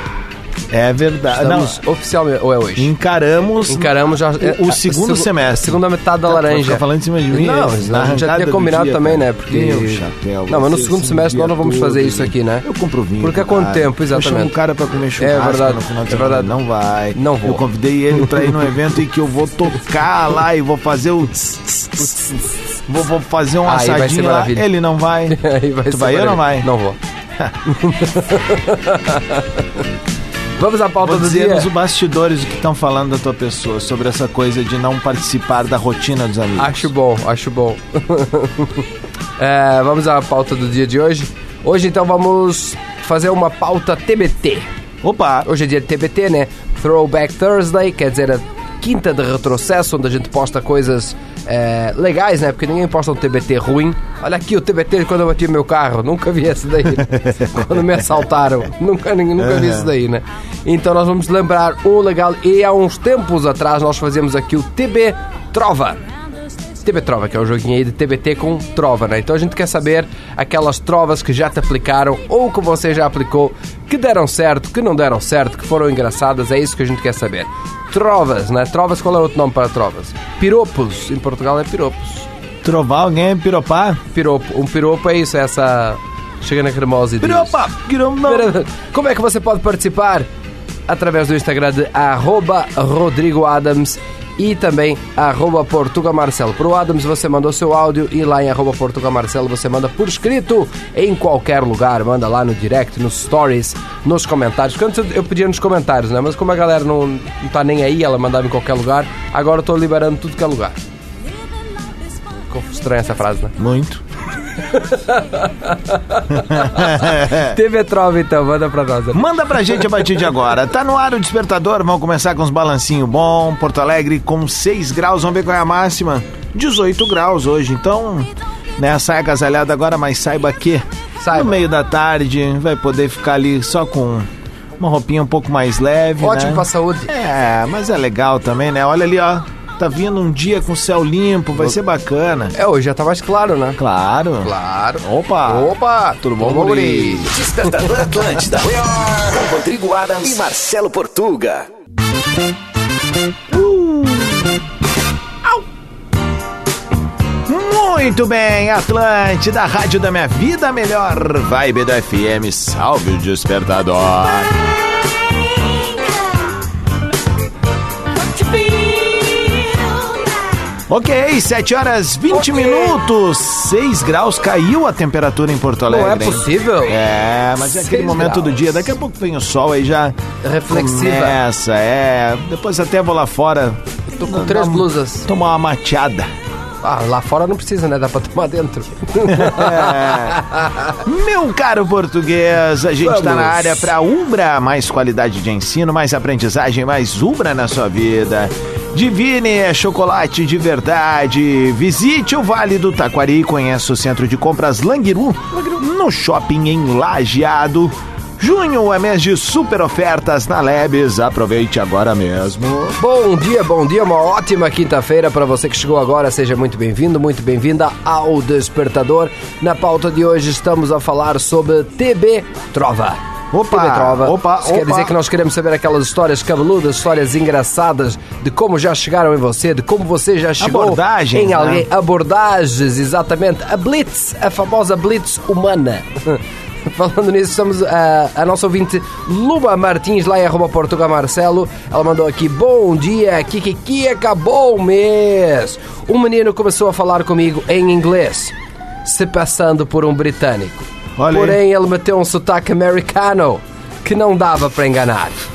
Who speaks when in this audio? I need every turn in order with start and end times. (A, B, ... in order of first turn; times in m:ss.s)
0:00.7-0:01.8 A
0:01.3-0:02.9 B
0:02.8-0:26.7 A
0:03.6-0:12.6 B
0:13.2-0:14.5 B
0:15.2-0:16.5 B
0:17.1-0:17.6 B
0:18.2-0:18.6 B
0:22.0-0:22.4 B
0:23.6-0:24.7 B
0:25.3-0:27.0 B
0:27.7-0:29.8 B
0:30.6-0:31.7 B
0:31.0-0:36.9 A
0:36.6-0:38.8 B
0:39.4-0:44.7 B
0:45.0-0:45.5 A
0:45.4-1:06.0 B
0:57.0-0:58.1 A
0:59.4-0:59.9 A
1:06.8-1:22.3 B
1:22.6-1:24.0 A
1:24.1-1:27.6 B
1:27.2-1:28.5 A
1:28.2-1:30.3 B
1:30.9-1:50.8 B
1:52.5-1:53.6 B
1:53.6-1:54.0 A
1:54.7-1:59.7 B
1:56.3-1:57.6 A
1:59.1-2:14.3 A
2:11.2-2:11.6 B
2:14.8-2:22.5 A
2:16.2-2:17.1 B
2:22.5-2:23.8 B
2:23.8-2:27.3 A
2:24.4-2:27.3 B
2:27.3-2:31.6 C
2:33.5-2:34.6 A
2:37.5-2:44.6 A
2:48.2-2:50.0 B
2:50.9-3:00.2 A
2:52.3-2:53.0 B
2:55.9-2:57.0 B
2:57.6-2:58.9 B
3:00.4-3:01.4 B
3:00.7-3:06.3 A
3:04.1-3:05.3 B
3:06.8-3:11.0 B
3:09.2-3:10.4 A
3:11.0-3:33.0 A
3:13.0-3:13.9 B
3:33.0-3:43.2 B
3:43.5-3:45.1 A
3:43.7-4:15.4 B
3:50.6-3:51.8 A
4:11.2-4:11.6 A